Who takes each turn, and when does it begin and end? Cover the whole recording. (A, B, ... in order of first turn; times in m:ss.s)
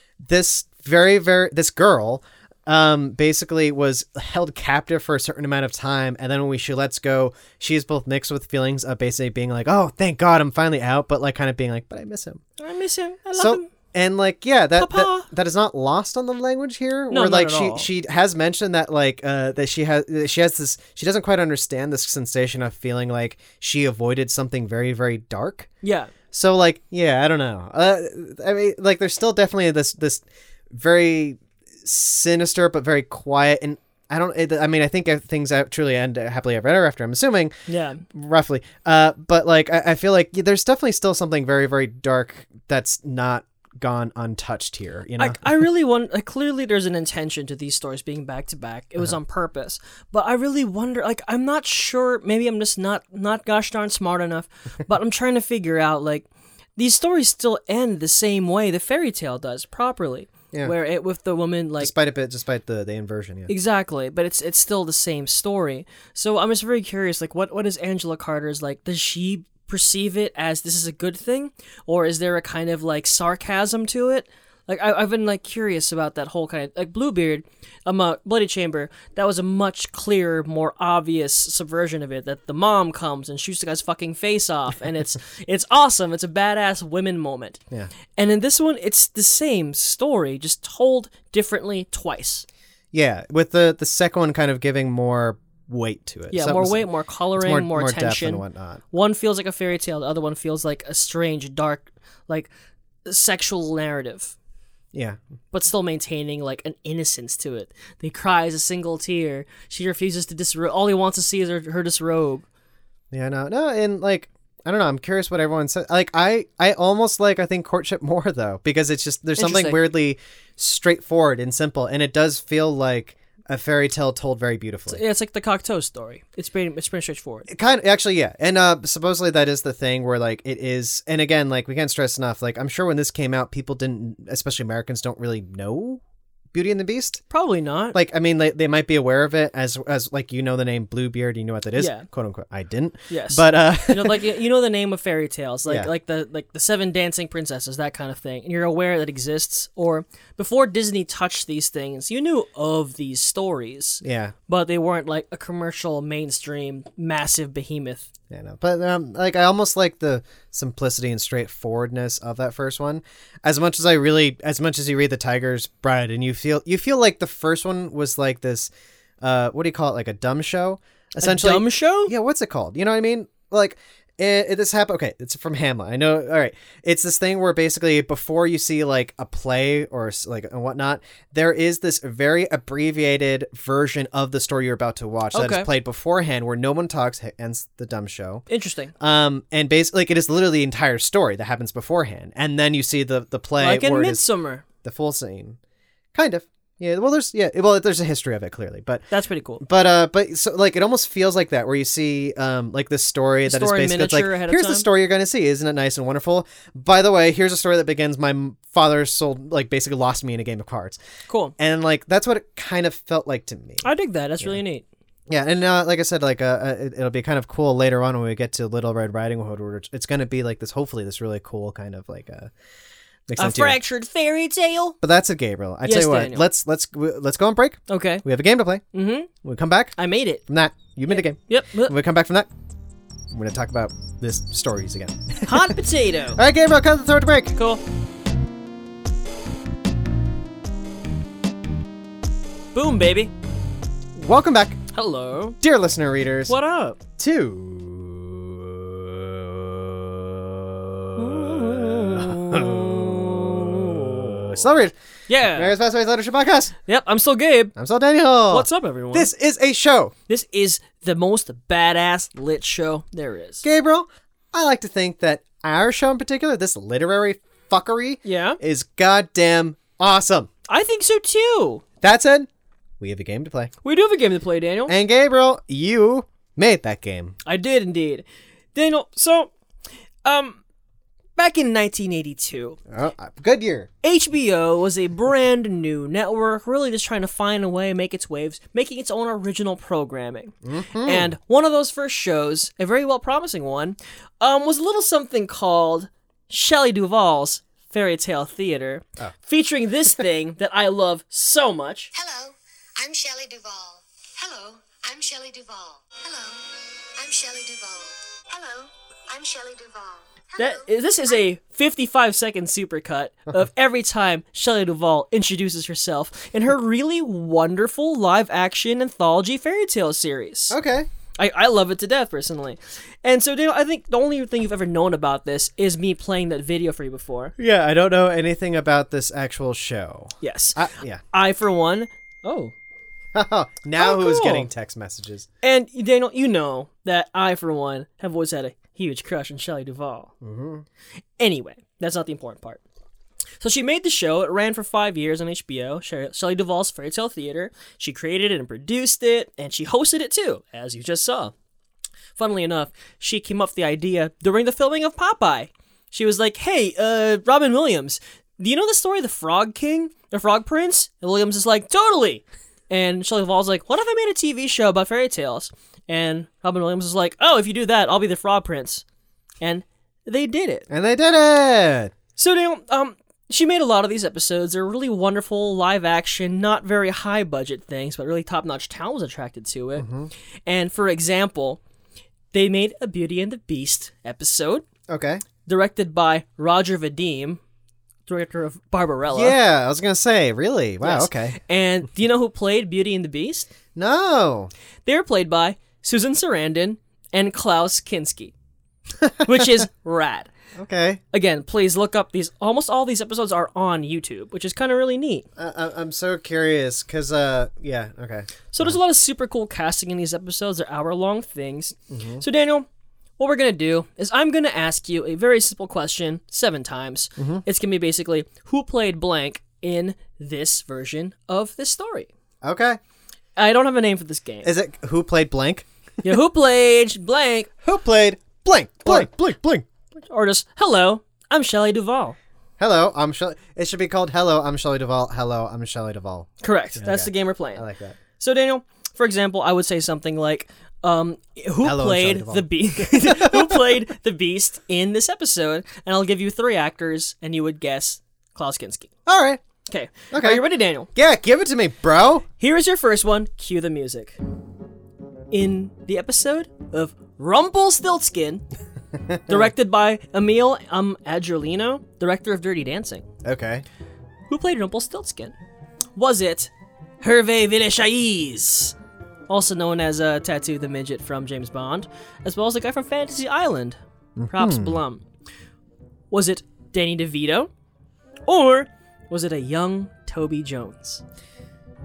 0:00.2-0:12.4 A
0:12.6-0:13.7 B
0:13.4-0:25.7 A
0:14.8-0:15.3 B
0:17.1-0:17.9 B
0:25.8-0:26.1 B
0:26.3-0:37.5 A
0:37.7-0:38.0 B
0:38.1-0:45.4 A
0:45.2-1:01.9 B
1:01.8-1:03.5 A
1:03.5-1:27.6 B
1:28.2-1:32.4 B
1:32.9-1:38.8 A
1:36.3-1:42.5 B
1:43.0-1:44.3 B
1:45.5-1:52.4 B
1:53.1-2:05.0 A
1:59.4-1:59.8 B
2:04.9-2:07.5 B
2:07.5-2:16.0 A
2:16.5-2:17.2 A
2:17.3-2:18.0 B
2:17.9-2:24.2 A
2:21.8-2:22.1 B
2:23.1-2:38.1 B
2:34.0-2:34.3 A
2:38.3-2:48.7 A
2:49.2-3:08.4 A
2:51.2-2:52.1 B
3:05.3-3:05.7 B
3:08.5-3:08.9 B
3:09.0-3:14.2 A
3:13.6-3:14.6 B
3:14.8-3:15.6 A
3:16.1-3:19.0 A
3:19.1-3:19.6 B
3:19.6-3:31.0 A
3:23.4-3:24.8 B
3:31.3-3:31.5 B
3:31.6-3:33.8 A
3:33.8-3:34.8 B
3:35.3-3:42.5 A
3:43.3-3:43.8 A
3:43.4-3:45.0 B
3:45.0-3:48.8 A
3:45.8-3:46.4 B
3:47.9-3:48.2 B
3:48.9-3:49.3 B
3:49.4-3:50.0 A
3:50.0-3:50.4 B
3:50.5-3:52.5 A
3:51.1-3:51.9 B
3:53.3-3:55.8 A
3:55.4-3:56.4 B
3:56.3-3:57.6 A
3:57.6-3:57.8 B
4:02.7-4:03.3 B
4:04.2-4:04.8 A
4:04.9-4:05.6 B
4:05.6-4:06.6 A
4:06.5-4:07.0 B
4:07.2-4:10.2 A
4:11.1-4:14.9 A
4:11.2-4:14.6 B
4:15.3-4:15.7 B
4:15.4-4:16.8 A
4:16.8-4:17.7 B
4:17.7-4:20.1 A
4:18.5-4:19.3 B
4:20.3-4:23.6 B
4:23.6-4:30.5 A
4:28.2-4:28.6 B
4:30.7-4:31.8 B
4:32.0-4:32.5 A
4:33.0-4:33.7 A
4:33.8-4:34.9 B
4:34.9-4:37.4 A
4:37.4-4:39.5 B
4:40.2-4:40.6 B
4:41.4-4:42.8 B
4:42.9-4:43.9 A
4:44.0-5:02.1 B
4:50.6-4:51.3 A
5:02.1-5:11.4 C
5:10.6-5:20.8 B
5:20.7-5:21.1 A
5:21.4-5:27.5 B
5:27.6-5:31.2 A
5:30.4-5:32.7 B
5:33.3-5:35.5 A
5:34.0-5:34.7 B
5:35.6-5:40.3 B
5:40.4-5:40.8 A
5:41.4-5:42.8 B
5:43.6-5:51.5 B
5:52.4-6:09.0 B
6:09.6-6:10.8 B
6:10.9-6:12.1 A
6:12.4-6:20.0 B
6:20.0-6:20.3 A
6:20.6-6:21.8 B
6:22.5-6:24.8 B
6:25.1-6:25.4 A
6:25.6-6:27.6 B
6:28.2-6:29.6 B
6:29.3-6:31.6 A
6:31.0-6:33.7 B
6:34.0-6:34.7 A
6:35.0-6:38.5 B
6:39.2-6:39.8 A
6:39.4-6:40.5 B
6:40.8-6:41.2 A
6:41.3-6:45.5 B
6:45.6-6:49.0 A
6:48.7-6:52.9 B
6:52.1-6:52.4 A
6:53.4-7:02.3 B
6:57.4-6:57.6 A
7:02.6-7:03.0 A
7:03.6-7:04.7 B
7:04.6-7:05.9 A
7:06.2-7:07.7 B
7:07.8-7:09.8 A
7:10.2-7:12.4 B
7:12.8-7:18.2 A
7:16.6-7:17.8 B
7:18.4-7:29.1 B
7:21.8-7:23.9 A
7:29.2-7:29.6 A
7:29.8-7:31.1 B
7:30.3-7:32.4 A
7:32.6-7:34.4 B
7:35.5-7:38.6 B
7:39.3-7:39.7 A
7:39.5-7:43.3 B
7:43.4-7:43.8 A
7:44.5-7:45.6 B
7:46.1-7:48.9 B
7:49.5-7:54.0 B
7:54.4-7:55.0 A
7:54.5-7:55.2 B
7:56.3-7:57.7 B
7:58.4-8:01.2 B